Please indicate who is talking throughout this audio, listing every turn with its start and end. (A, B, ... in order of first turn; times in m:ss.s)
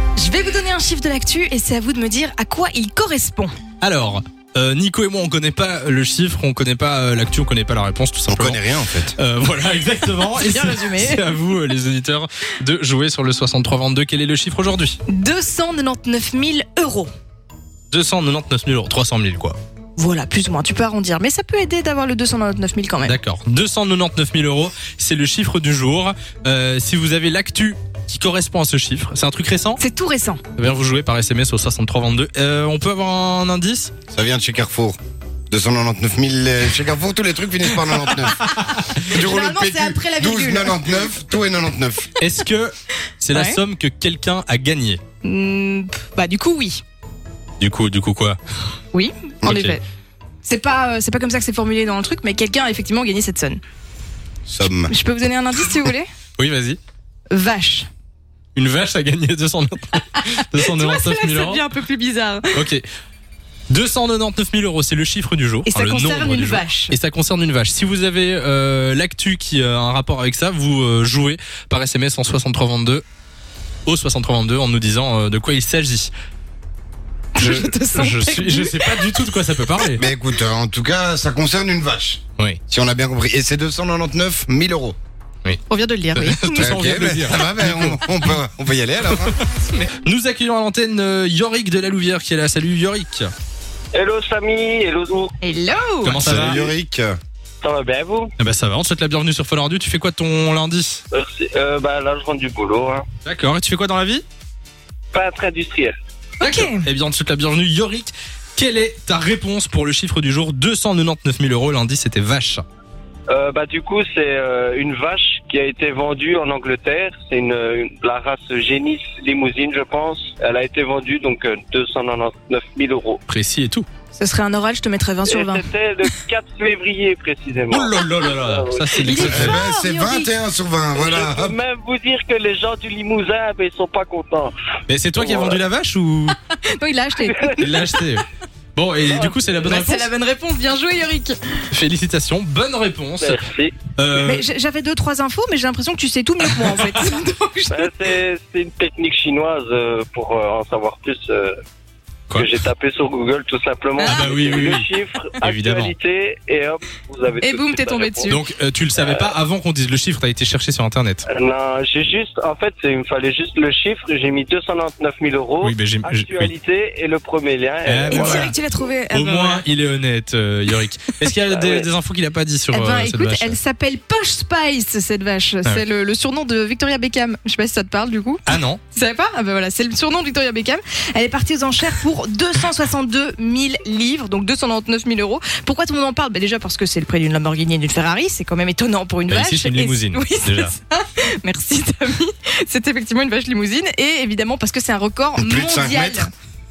0:00.2-0:03.6 A
0:03.8-0:08.6 B
0:08.3-0:09.2 C
0:09.2-0:15.0 B
0:10.3-0:11.3 A
0:15.1-0:17.1 A
0:17.9-0:19.6 B
0:20.0-0:23.2 A
0:23.0-0:29.8 B
0:29.8-0:30.4 A
0:30.6-0:33.9 B
0:34.1-0:35.0 C
0:35.5-0:42.1 C
0:38.4-0:40.9 A
0:42.2-0:45.0 B
0:43.3-0:43.6 A
0:45.2-0:46.8 A
0:47.6-0:48.4 B
0:48.9-0:49.8 A
0:49.4-0:49.8 B
0:50.4-0:53.6 A
0:54.5-0:54.9 C
0:54.9-0:56.1 A
0:56.4-0:56.8 B
0:57.3-0:57.9 A
0:58.6-1:01.6 B
1:00.2-1:02.7 A
1:02.5-1:02.8 B
1:03.7-1:13.0 B
1:05.7-1:07.0 A
1:13.9-1:16.1 B
1:17.4-1:19.2 A
1:17.4-1:20.0 B
1:20.0-1:25.0 C
1:25.7-1:26.8 A
1:26.1-1:28.0 B
1:26.6-1:29.4 C
1:29.7-1:33.3 B
1:33.9-1:35.4 D
1:35.4-1:36.2 A
1:36.0-1:36.6 B
1:36.1-1:37.2 C
1:36.3-1:36.7 D
1:37.6-1:38.3 D
1:38.4-1:41.0 B
1:41.1-1:43.0 D
1:43.2-1:44.2 B
1:45.1-1:46.0 D
1:46.4-1:46.8 A
1:46.4-1:52.6 B
1:53.3-2:03.2 D
2:03.3-2:03.9 B
2:04.2-2:05.6 A
2:05.3-2:09.3 D
2:07.7-2:09.6 B
2:09.0-2:10.3 A
2:09.1-2:11.6 C
2:10.9-2:14.5 D
2:14.9-2:16.4 B
2:15.2-2:15.6 D
2:16.6-2:17.9 A
2:17.6-2:20.1 B
2:19.0-2:19.4 D
2:19.6-2:21.4 A
2:21.7-2:23.4 B
2:23.2-2:23.8 D
2:24.0-2:24.4 B
2:24.2-2:27.9 A
2:26.4-2:27.0 B
2:27.7-2:31.5 D
2:32.3-2:38.4 D
2:34.0-2:34.8 A
2:34.0-2:34.9 B
2:35.4-2:35.9 B
2:37.4-2:38.4 A
2:38.3-2:41.2 B
2:41.3-2:48.5 D
2:45.6-2:46.5 B
2:47.9-2:48.6 B
2:48.1-2:49.6 A
2:49.1-2:53.6 B
2:51.4-2:51.9 D
2:52.7-3:16.3 A
2:58.5-2:58.8 B
3:09.3-3:10.7 B
3:15.4-3:16.3 C